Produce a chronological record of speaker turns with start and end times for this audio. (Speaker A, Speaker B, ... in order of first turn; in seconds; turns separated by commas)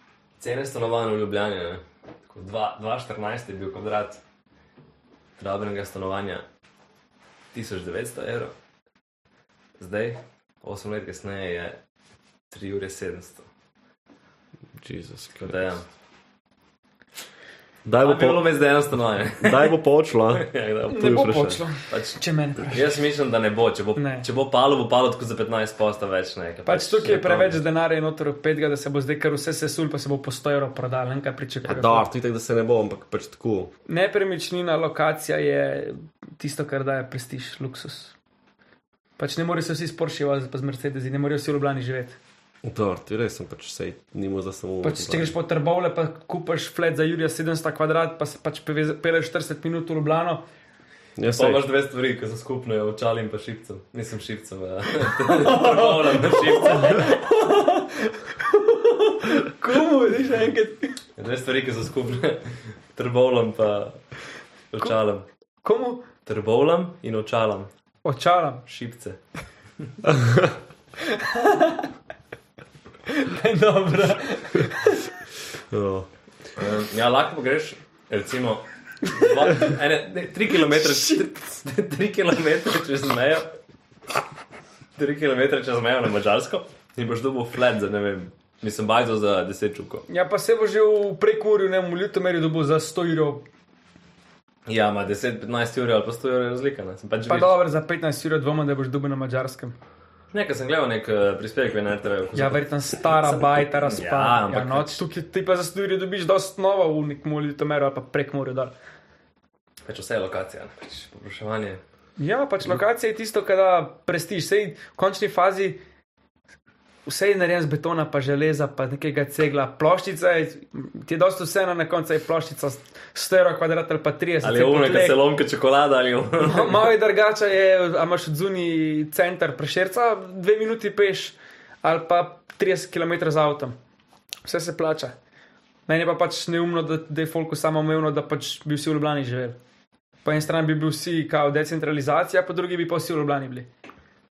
Speaker A: 0.4-4.2, Speaker A: 5.4-6.5, Speaker A: 7.5-8.5, Speaker A: 9.8-11.8, Speaker A: 12.5-13.4, Speaker B: 14.8-15.7, Speaker A: 15.4-15.8, Speaker B: 17.8-18.5, Speaker A: 18.0-19.8, Speaker B: 19.4-21.6, Speaker A: 20.3-21.2, Speaker C: 20.9-22.8, Speaker A: 21.9-27.6, Speaker C: 23.9-24.2, Speaker C: 26.6-32.0, Speaker B: 31.6-33.7, Speaker C: 33.9-38.1, Speaker C: 39.2-42.2, Speaker B: 42.6-45.3, Speaker C: 44.8-50.4, Speaker B: 51.2-51.6, Speaker A: 51.2-57.2, Speaker C: 55.2-61.0, Speaker A: 61.2-64.0, Speaker A: 64.7-65.2, Speaker C: 65.6-66.0, Speaker A: 66.2-67.7, Speaker C: 68.0-68.6, Speaker A: 68.7-69.2, Speaker B: 70.0-70.5, Speaker C: 71.0-71.9, Speaker C: 73.1-75.1, Speaker B: 75.7-76.1, Speaker A: 76.5-83.5, Speaker A: 85.0-90.0, Speaker C: 90.1-93.4, Speaker A: 94.7-97.6, Speaker C: 97.3-99.8, Speaker A: 100.3-105.0, Speaker C: 102.3-108.7, Speaker A: 109.9-111.8, Speaker C: 112.2-115.8, Speaker C: 117.0-125.2, Speaker A: 124.4-126.9, Speaker C: 126.4-133.8, Speaker C: 134.4-135.1, Speaker C: 135.9-139.6, Speaker C: 140.2-143.7